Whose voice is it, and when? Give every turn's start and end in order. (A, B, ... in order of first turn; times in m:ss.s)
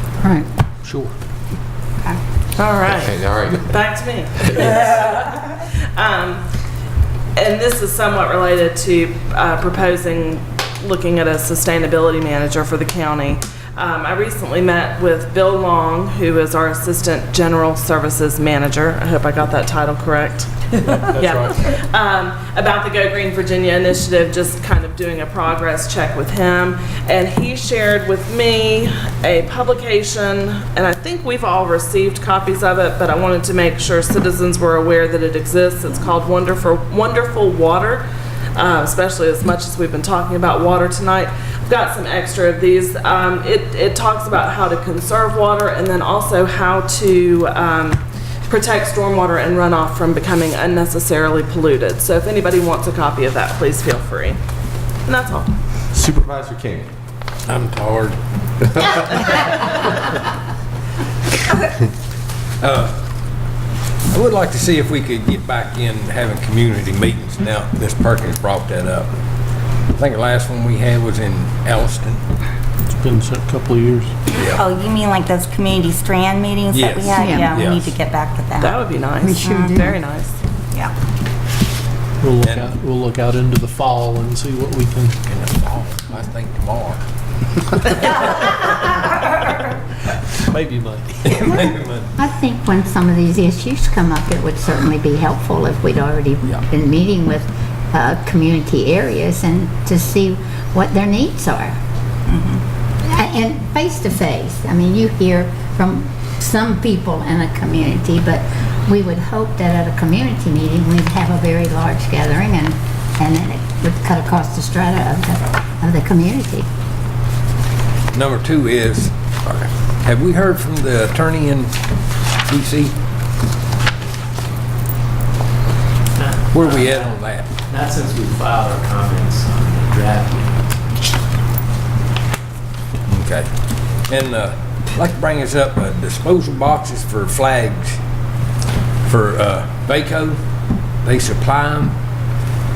0:02.6-0:06.4 A
0:02.8-0:03.8 B
0:07.4-0:54.4 A
0:20.9-0:21.4 C
0:55.0-0:55.5 A
0:55.9-0:56.9 B
0:57.5-0:58.2 C
0:58.7-0:59.0 B
1:02.6-1:02.9 C
1:04.1-1:09.1 C
1:10.0-1:12.2 C
1:12.9-1:14.1 D
1:14.3-1:14.6 C
1:14.5-1:20.0 E
1:16.7-1:17.9 C
1:17.2-1:17.5 F
1:18.6-1:20.4 A
1:19.2-1:19.7 F
1:22.2-1:25.2 D
1:22.4-1:22.7 C
1:25.3-1:27.0 C
1:27.8-1:28.5 C
1:30.4-1:31.4 D
1:31.2-1:32.1 C
1:32.2-1:41.8 F
1:42.3-1:42.6 E
1:43.0-1:56.7 F
1:58.1-2:01.7 C
2:02.4-2:02.9 C
2:06.2-2:07.1 G
2:06.5-2:07.5 C
2:07.7-2:10.7 G
2:13.1-2:13.5 C
2:14.1-2:18.0 C
2:19.0-2:20.4 C
2:21.0-2:21.9 C